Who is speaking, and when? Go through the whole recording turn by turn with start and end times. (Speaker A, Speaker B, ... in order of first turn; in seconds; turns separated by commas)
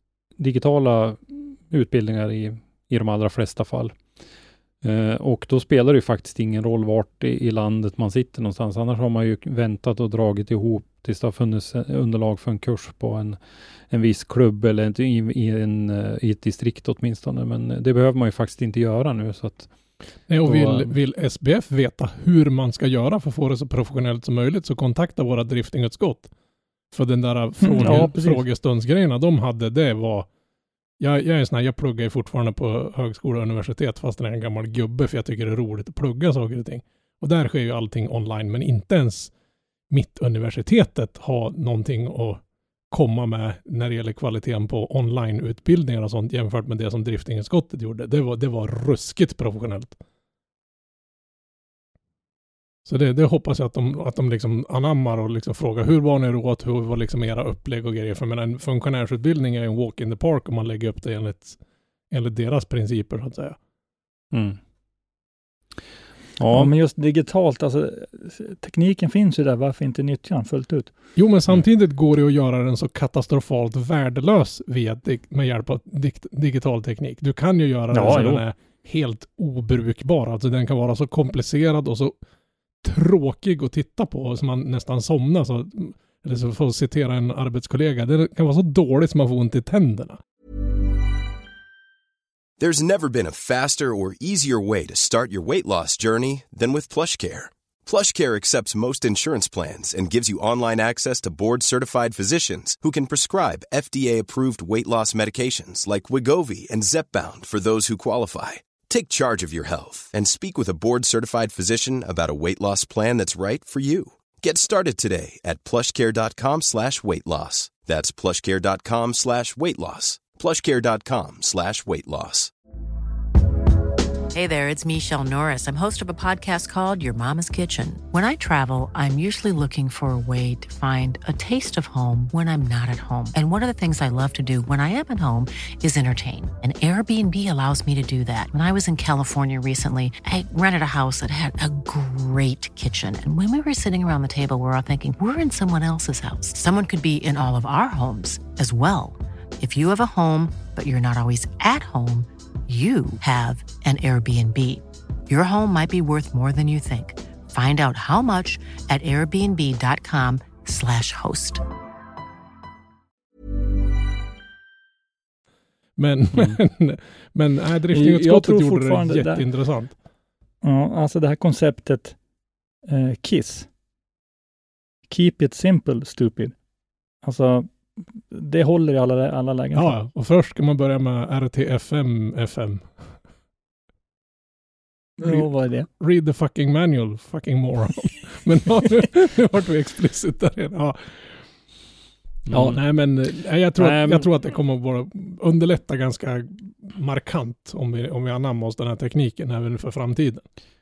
Speaker A: 0.4-4.0, Speaker A: 4.8-19.7, Speaker B: 20.3-26.3, Speaker A: 20.4-20.9, Speaker B: 26.9-30.3, Speaker C: 27.6-28.4, Speaker B: 31.0-39.3, Speaker B: 39.9-50.0, Speaker B: 52.9-61.6, Speaker B: 62.1-63.6, Speaker A: 64.3-64.6, Speaker A: 66.4-66.7, Speaker C: 66.5-70.9, Speaker B: 71.2-82.2, Speaker C: 77.9-78.4, Speaker B: 82.8-90.2, Speaker D: 92.6-122.5, Speaker E: 124.3-161.6, Speaker B: 166.0-169.9, Speaker C: 167.9-169.4, Speaker C: 170.6-172.2, Speaker C: 172.9-173.7, Speaker C: 175.1-176.5, Speaker C: 177.2-177.7, Speaker C: 178.2-180.0, Speaker B: 179.7-183.0, Speaker C: 185.2-185.9, Speaker B: 185.2-191.4, Speaker A: 192.5-192.8, Speaker B: 192.5-200.4, Speaker A: 193.8-194.3